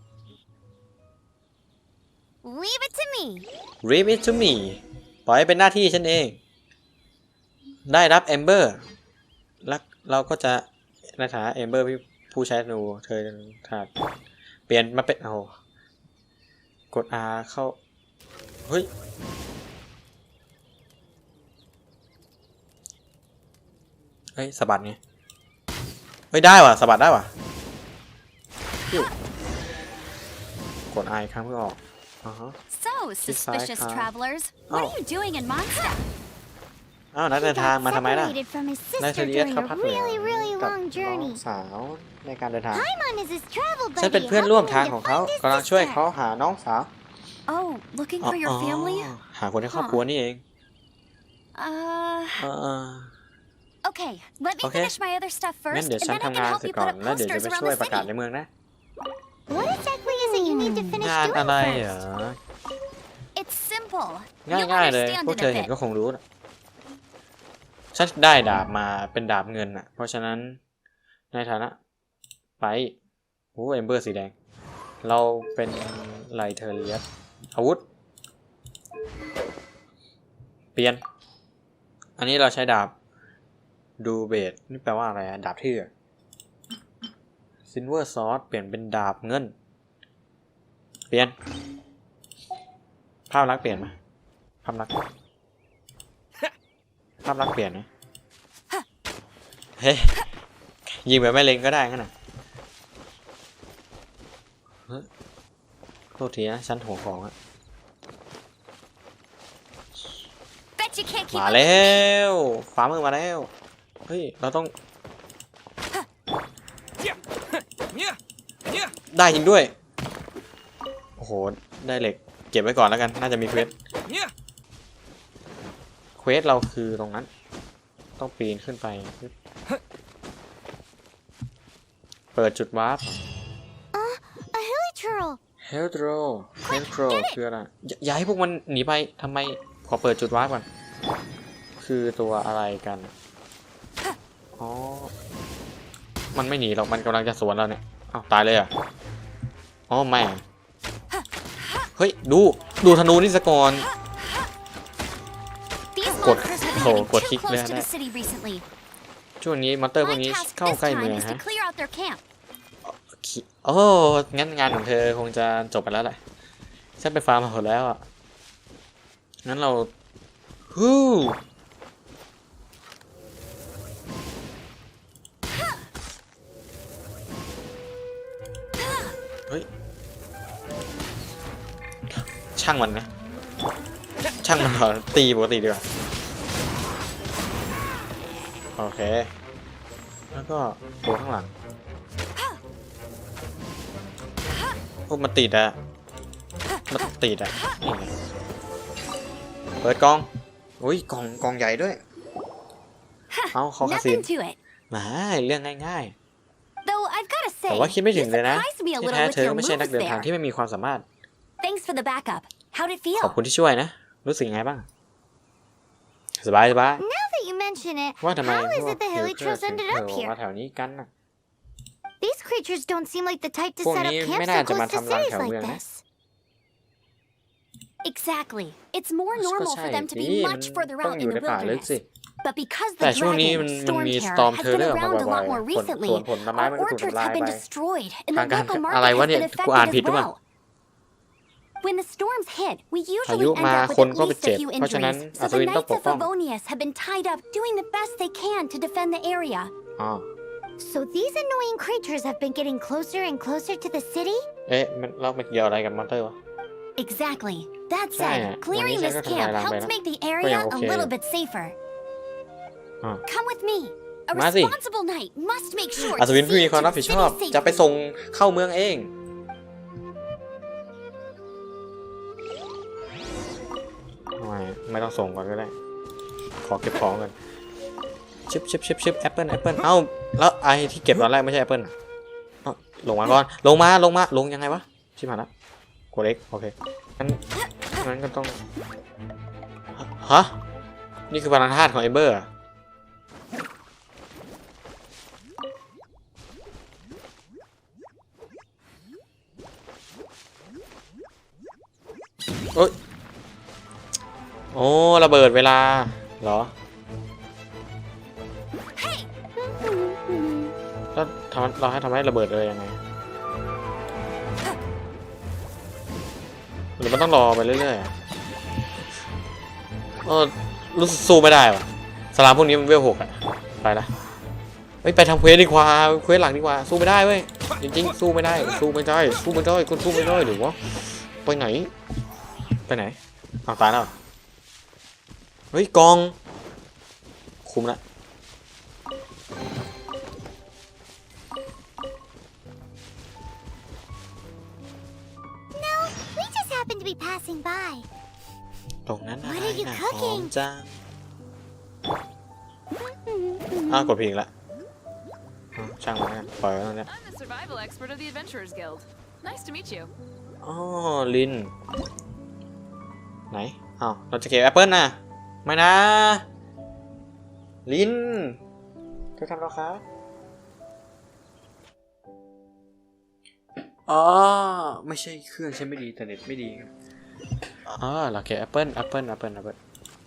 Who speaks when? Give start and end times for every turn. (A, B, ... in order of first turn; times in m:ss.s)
0:02.4-0:03.5 A
0:03.8-0:06.4 B
0:07.9-0:08.8 B
0:09.6-0:13.9 B
0:14.7-0:15.6 B
0:16.9-0:17.8 B
0:24.4-0:25.0 B
0:26.3-0:27.3 B
0:30.9-0:32.6 B
0:32.7-0:36.0 C
0:33.2-0:34.1 B
0:34.7-0:35.0 B
0:37.1-0:38.4 B
0:37.4-0:41.4 A
0:39.0-0:42.9 B
0:42.7-0:46.0 A
0:44.0-0:46.9 B
0:47.5-0:49.1 C
0:48.2-0:50.4 B
0:49.7-0:50.0 C
0:51.6-0:52.5 C
0:52.4-0:53.1 B
0:53.8-0:58.1 C
0:54.6-0:55.0 B
0:55.7-0:58.5 B
0:59.5-1:01.9 A
1:00.3-1:01.0 C
1:01.0-1:02.4 B
1:03.4-1:05.7 C
1:04.4-1:06.2 B
1:07.9-1:10.6 B
1:11.3-1:11.8 B
1:12.6-1:13.0 B
1:13.6-1:14.3 B
1:15.0-1:17.9 B
1:20.8-1:21.0 B
1:22.2-1:23.0 B
1:24.0-1:25.9 B
1:27.7-1:29.5 B
1:31.1-1:31.4 B
1:33.3-1:34.0 B
1:34.6-1:34.9 B
1:37.2-1:37.9 B
1:39.8-1:40.3 B
1:40.9-1:42.1 B
1:46.2-1:47.3 B
1:50.8-1:52.1 C
1:51.3-1:53.5 B
1:54.1-1:54.7 B
1:59.1-1:59.7 B
2:01.2-2:03.8 B
2:06.2-2:07.3 B
2:08.2-2:09.3 B
2:12.3-2:13.2 B
2:13.9-2:15.4 A
2:15.6-2:20.7 B
2:16.7-2:17.4 A
2:21.8-2:23.1 B
2:24.6-2:25.1 B
2:26.3-2:28.7 B
2:29.9-2:30.4 B
2:32.0-2:33.9 B
2:35.9-2:38.6 C
2:36.1-2:37.9 B
2:39.4-2:41.4 B
2:40.0-2:42.2 C
2:42.8-2:46.2 B
2:47.0-2:48.0 B
2:49.4-2:49.9 B
2:50.7-2:51.4 B
2:58.8-2:59.2 C
3:02.1-3:03.1 B
3:04.4-3:05.8 B
3:08.8-3:09.3 B
3:10.3-3:11.5 B
3:15.1-3:15.8 B
3:16.9-3:18.1 B
3:19.8-3:20.3 B
3:20.8-3:22.0 B
3:23.3-3:24.6 C
3:23.5-3:24.3 B
3:24.9-3:26.2 B
3:26.8-3:30.3 C
3:27.7-3:31.0 B
3:31.6-3:33.4 C
3:33.2-3:34.9 B
3:36.4-3:37.0 B
3:37.0-3:40.4 A
3:38.2-3:41.1 B
3:42.2-3:46.0 A
3:43.8-3:45.8 B
3:48.0-4:00.4 C
3:49.4-3:52.1 B
3:53.0-3:57.6 B
3:58.3-4:00.3 B
4:01.8-4:09.7 C
4:03.2-4:06.3 B
4:10.0-4:10.3 B
4:10.8-4:14.5 A
4:14.7-4:16.4 B
4:17.0-4:21.8 C
4:18.2-4:21.1 B
4:23.3-4:27.8 C
4:24.3-4:24.8 B
4:26.0-4:29.1 B
4:34.4-4:35.7 B
4:36.6-4:37.3 B
4:38.5-4:41.9 B
4:42.6-4:45.5 B
4:46.1-4:47.4 B
4:47.9-4:48.6 B
4:50.0-4:50.6 B
4:51.3-4:52.5 B
5:04.7-5:06.7 B
5:09.0-5:09.3 C
5:09.6-5:10.7 A
5:11.1-5:13.0 B
5:17.0-5:18.1 B
5:20.2-5:24.1 B
5:25.0-5:31.9 B
5:32.9-5:34.2 B
5:35.7-5:36.4 B
5:37.6-5:38.0 B
5:45.7-5:48.1 A
5:49.1-5:51.0 B
5:49.4-5:50.5 A
5:53.0-5:54.1 A
5:53.9-5:54.5 B
5:55.8-5:57.1 B
5:57.1-6:00.1 D
6:00.6-6:01.7 B
6:03.5-6:06.4 B
6:07.9-6:08.6 B
6:09.4-6:10.0 B
6:14.1-6:16.9 B
6:17.8-6:19.8 B